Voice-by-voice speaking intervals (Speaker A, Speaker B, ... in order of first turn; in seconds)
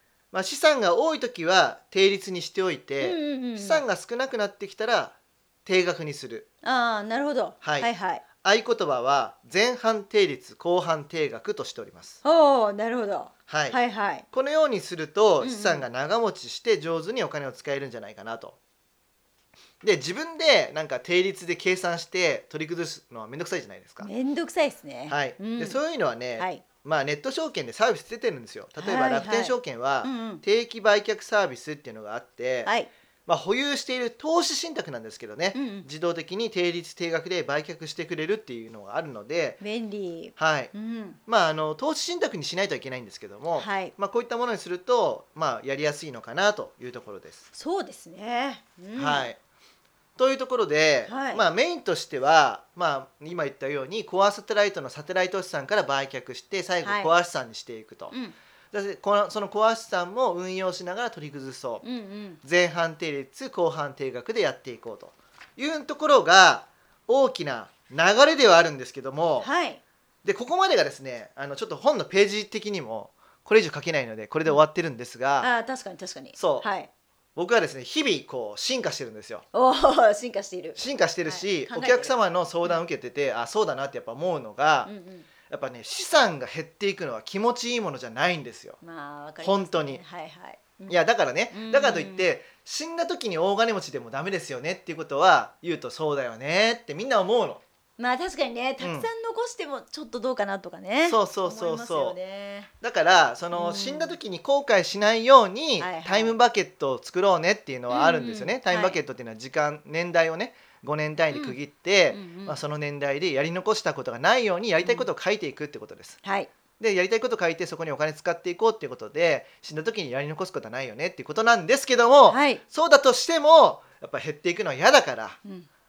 Speaker A: 0.3-6.5, 7.6-12.2, 13.5-13.8, 14.3-18.6, 19.8-24.1, 25.1-32.7, 33.2-39.6, 40.4-40.7, 41.2-47.5, 48.9-49.4, 50.2-58.1, 58.7-61.8, 62.4-69.5, 70.2-75.5, 76.3-76.7, 77.3-79.4, 80.8-84.9, 85.5-88.8, 89.4-90.0, 90.9-97.6, 98.8-99.1, 101.0-102.2, 102.8-116.2, 116.8-125.4
Speaker B: 3.0-3.8, 6.6-8.2, 12.2-14.2, 15.4-15.8, 24.0-25.8, 26.4-26.6, 28.8-30.4, 32.6-32.9, 35.5-35.9, 39.6-41.2, 43.5-43.9, 47.5-49.3, 51.0-51.4, 56.8-57.1, 61.8-62.4, 69.4-69.8, 75.4-76.9, 79.5-82.1, 84.8-85.3, 88.8-91.0, 91.5-92.3, 98.0-102.7, 103.5-104.2, 105.8-106.3, 107.9-109.0, 111.3-111.6, 112.1-112.6, 114.8-115.1, 116.2-116.5, 122.3-122.6